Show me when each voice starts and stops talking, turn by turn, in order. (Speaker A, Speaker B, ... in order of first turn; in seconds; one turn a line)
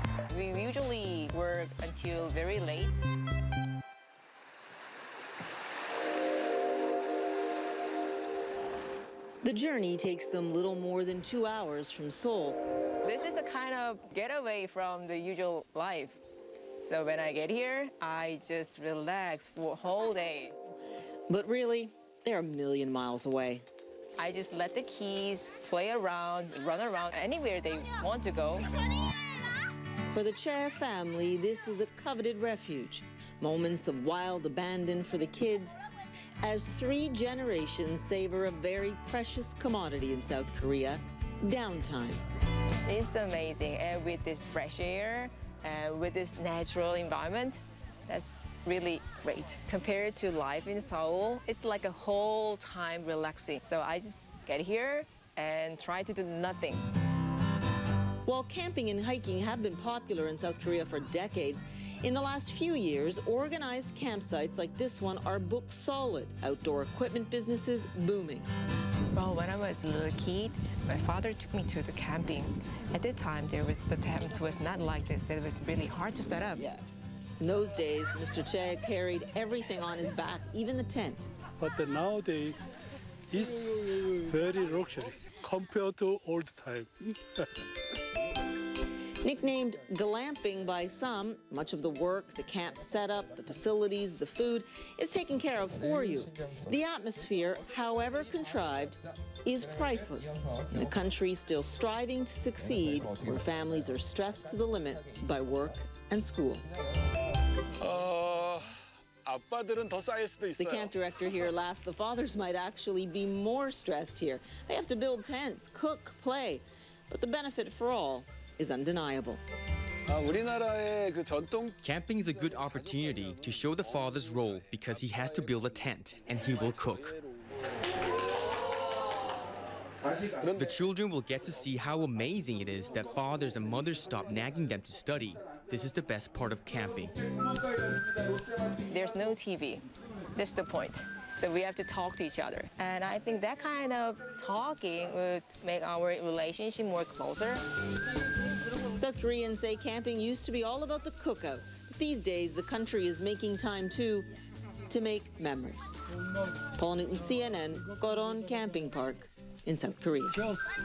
Speaker A: 0.3-3.0
Speaker B: 9.4-12.6
Speaker A: 13.0-16.2
Speaker A: 16.8-20.6
Speaker B: 21.3-23.6
Speaker A: 24.2-28.7
Speaker B: 30.1-35.8
Speaker B: 36.4-42.2
Speaker A: 42.9-56.9
Speaker B: 58.3-68.5
Speaker A: 69.1-76.8
Speaker B: 77.4-81.3
Speaker C: 81.6-82.6
Speaker C: 83.3-87.5
Speaker B: 89.2-106.6
Speaker D: 107.8-108.7
Speaker D: 109.2-110.9
Speaker B: 110.6-119.4
Speaker D: 120.1-121.8
Speaker E: 121.8-127.1
Speaker D: 122.8-123.2
Speaker D: 124.0-124.4
Speaker D: 126.5-127.2
Speaker D: 130.4-130.7
Speaker E: 130.5-137.2
Speaker A: 138.9-139.8
Speaker A: 140.3-147.6
Speaker B: 149.0-154.3
Speaker B: 154.9-156.0
Speaker B: 156.8-160.6